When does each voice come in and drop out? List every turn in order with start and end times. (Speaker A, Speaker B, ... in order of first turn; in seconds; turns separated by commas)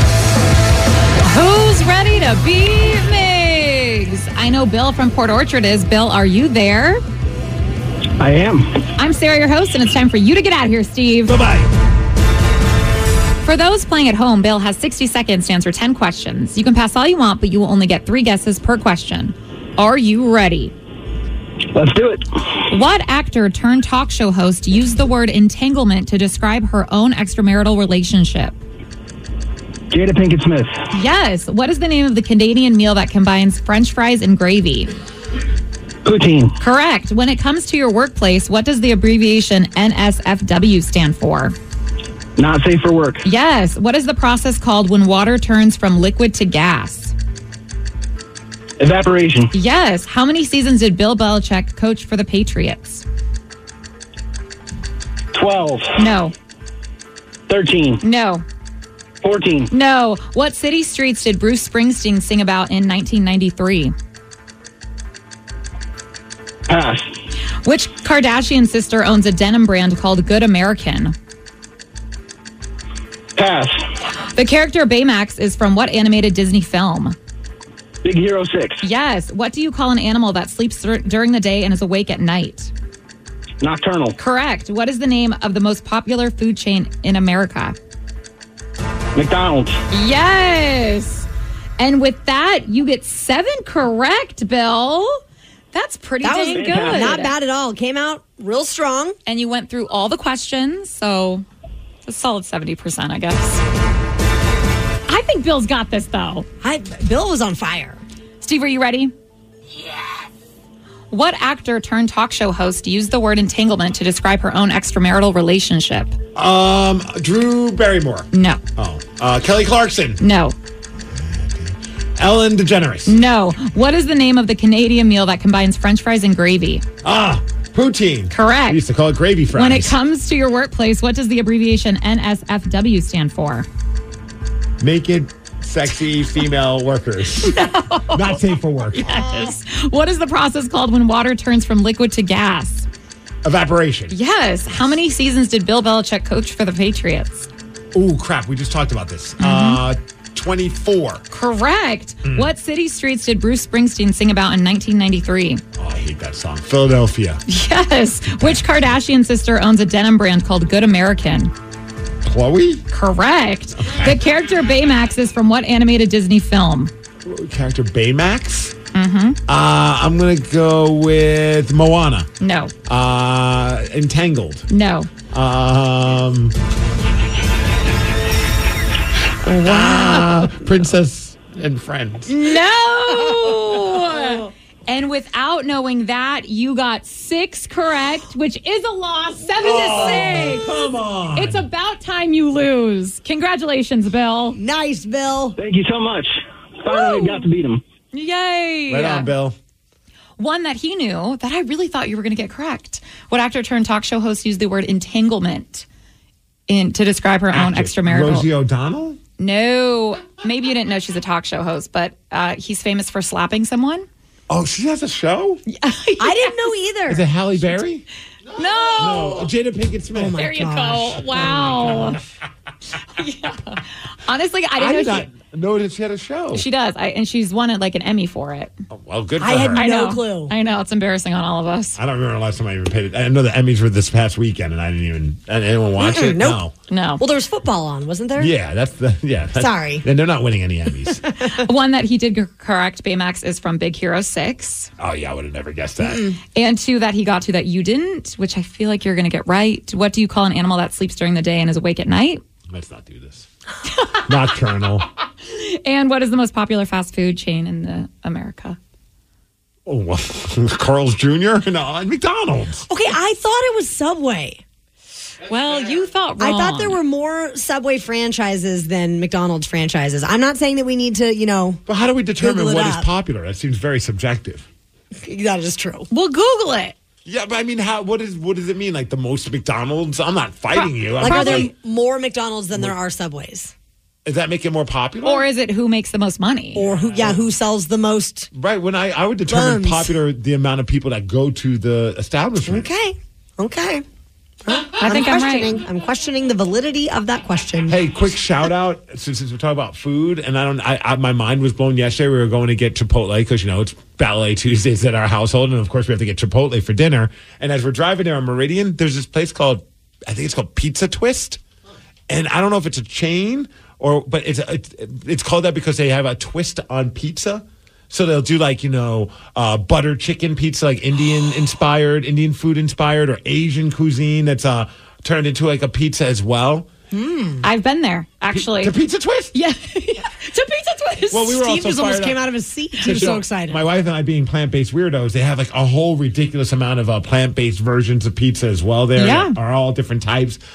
Speaker A: 1.2-7.0, Speaker B: 8.2-8.7, Speaker A: 9.0-11.4, Speaker C: 11.3-11.6, Speaker A: 13.4-20.7, Speaker B: 21.7-22.2, Speaker A: 22.7-28.6, Speaker B: 29.9-30.7, Speaker A: 30.9-34.9, Speaker B: 36.0-36.5, Speaker A: 36.6-41.5, Speaker B: 42.4-43.2, Speaker A: 43.2-47.1, Speaker B: 48.8-49.5, Speaker A: 49.5-53.0, Speaker B: 55.3-55.9, Speaker A: 56.0-56.3, Speaker B: 57.5-58.0, Speaker A: 58.0-58.4, Speaker B: 59.2-59.7, Speaker A: 59.7-63.9, Speaker B: 66.7-67.1, Speaker A: 67.6-71.1, Speaker B: 73.4-73.8, Speaker A: 74.3-77.2, Speaker B: 78.0-78.8, Speaker A: 78.8-82.7, Speaker B: 83.6-84.2, Speaker A: 84.2-87.8, Speaker B: 89.1-89.8, Speaker A: 89.9-91.3, Speaker A: 91.8-95.2, Speaker A: 95.7-97.3, Speaker D: 96.2-99.2, Speaker B: 96.6-97.1, Speaker A: 99.2-101.5, Speaker A: 102.0-103.6, Speaker A: 105.1-106.5, Speaker D: 106.6-108.0, Speaker A: 108.4-109.1, Speaker A: 111.1-116.2, Speaker C: 116.3-120.2, Speaker A: 118.3-118.6, Speaker A: 120.2-120.5, Speaker C: 121.1-123.1, Speaker A: 123.0-126.8, Speaker C: 127.0-129.9, Speaker A: 128.3-128.8, Speaker A: 129.5-133.7, Speaker C: 134.8-137.6, Speaker A: 137.4-142.9, Speaker C: 138.1-139.3, Speaker C: 143.4-144.1, Speaker A: 144.1-147.5, Speaker C: 147.9-151.2, Speaker A: 149.4-149.8, Speaker A: 151.3-155.6, Speaker C: 152.2-152.5, Speaker C: 155.8-157.4, Speaker A: 157.5-161.5, Speaker C: 158.4-158.7, Speaker C: 162.2-162.8, Speaker A: 162.9-166.9, Speaker C: 163.8-164.1, Speaker C: 167.2-168.7, Speaker A: 168.9-169.4, Speaker C: 169.5-172.3, Speaker A: 172.4-172.7, Speaker C: 172.9-174.7, Speaker A: 174.7-175.1, Speaker C: 175.3-176.5, Speaker C: 179.4-182.4, Speaker A: 179.7-180.2, Speaker A: 182.3-190.8, Speaker C: 189.6-191.7, Speaker A: 191.3-194.6, Speaker D: 194.5-195.6, Speaker B: 195.6-196.3, Speaker B: 196.8-197.8, Speaker A: 196.9-197.4, Speaker A: 198.1-199.3, Speaker C: 198.9-199.6, Speaker A: 200.4-205.8, Speaker A: 206.7-208.5, Speaker C: 207.5-209.2, Speaker A: 209.4-214.1, Speaker C: 214.5-215.6, Speaker A: 215.7-216.7, Speaker D: 216.2-217.3, Speaker C: 217.1-218.0, Speaker A: 218.5-219.5, Speaker C: 218.9-220.4, Speaker D: 220.1-221.4, Speaker A: 220.3-222.2, Speaker A: 223.2-225.3, Speaker C: 224.8-226.6, Speaker A: 226.5-228.7, Speaker C: 228.9-229.8, Speaker D: 229.4-230.5, Speaker A: 229.7-232.0, Speaker C: 231.9-236.7, Speaker D: 236.0-236.6, Speaker A: 236.9-237.2, Speaker D: 237.2-238.5, Speaker C: 238.4-241.2, Speaker D: 239.5-240.1, Speaker A: 241.4-244.9, Speaker C: 245.0-246.3, Speaker A: 246.5-252.4, Speaker C: 252.7-253.5, Speaker A: 253.9-254.3, Speaker C: 254.3-255.1, Speaker A: 255.4-258.8, Speaker C: 259.9-262.8, Speaker D: 262.9-264.6, Speaker A: 265.4-267.0, Speaker D: 266.4-271.8, Speaker C: 271.9-274.7, Speaker D: 272.4-273.1, Speaker D: 275.2-276.1, Speaker A: 276.1-276.9, Speaker C: 277.2-281.7, Speaker A: 280.7-281.7, Speaker D: 281.2-283.7, Speaker C: 284.2-285.5, Speaker A: 285.2-286.8, Speaker D: 286.7-288.5, Speaker C: 288.5-292.9, Speaker D: 289.5-290.2, Speaker D: 292.6-294.0, Speaker D: 294.6-298.0, Speaker A: 295.0-295.8, Speaker C: 297.9-311.6, Speaker C: 312.3-326.9, Speaker D: 327.1-327.6, Speaker A: 327.6-328.9, Speaker C: 328.5-329.5, Speaker A: 329.5-331.6, Speaker C: 331.3-332.4, Speaker D: 331.5-333.8, Speaker A: 333.0-333.3, Speaker C: 333.0-340.6, Speaker A: 339.1-339.6